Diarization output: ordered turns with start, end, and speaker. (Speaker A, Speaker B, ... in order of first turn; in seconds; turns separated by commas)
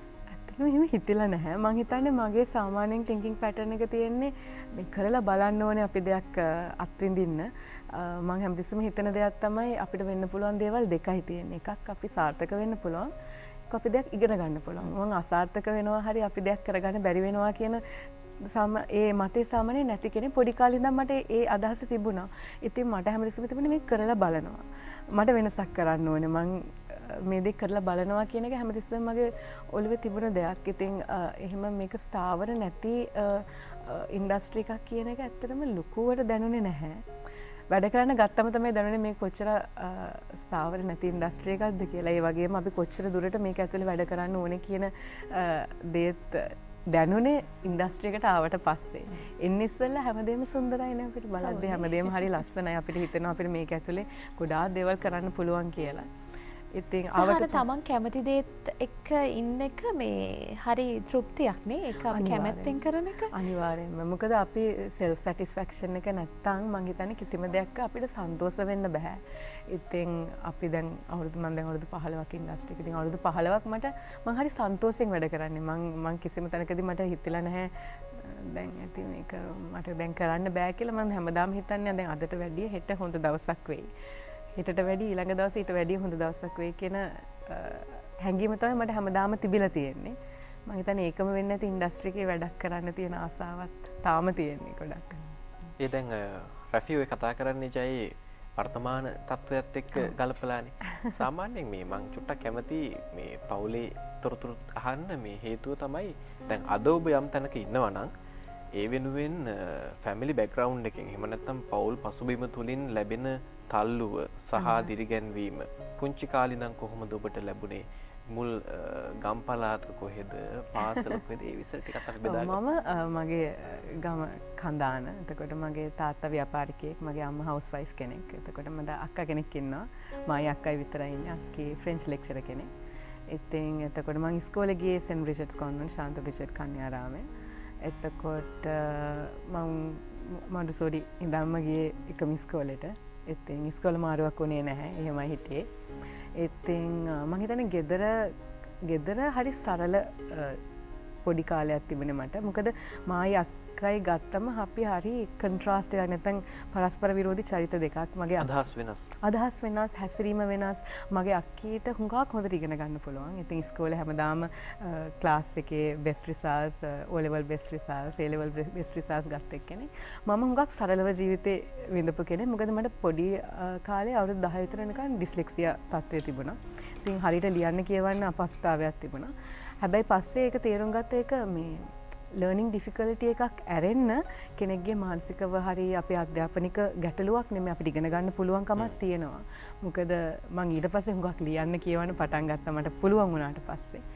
Speaker A: 0.3-13.1, Speaker A: 13.7-17.8, Speaker A: 18.4-37.0, Speaker A: 37.7-56.1, Speaker B: 51.4-52.3, Speaker A: 56.7-57.7, Speaker B: 57.1-63.4, Speaker A: 62.1-83.9, Speaker A: 84.5-90.2, Speaker A: 90.7-95.2, Speaker C: 95.8-108.1, Speaker C: 108.8-122.6, Speaker A: 114.5-114.9, Speaker A: 122.2-132.7, Speaker A: 133.3-137.3, Speaker A: 137.8-145.7, Speaker A: 146.3-150.6, Speaker A: 151.2-158.6, Speaker C: 158.4-159.1, Speaker A: 159.2-194.0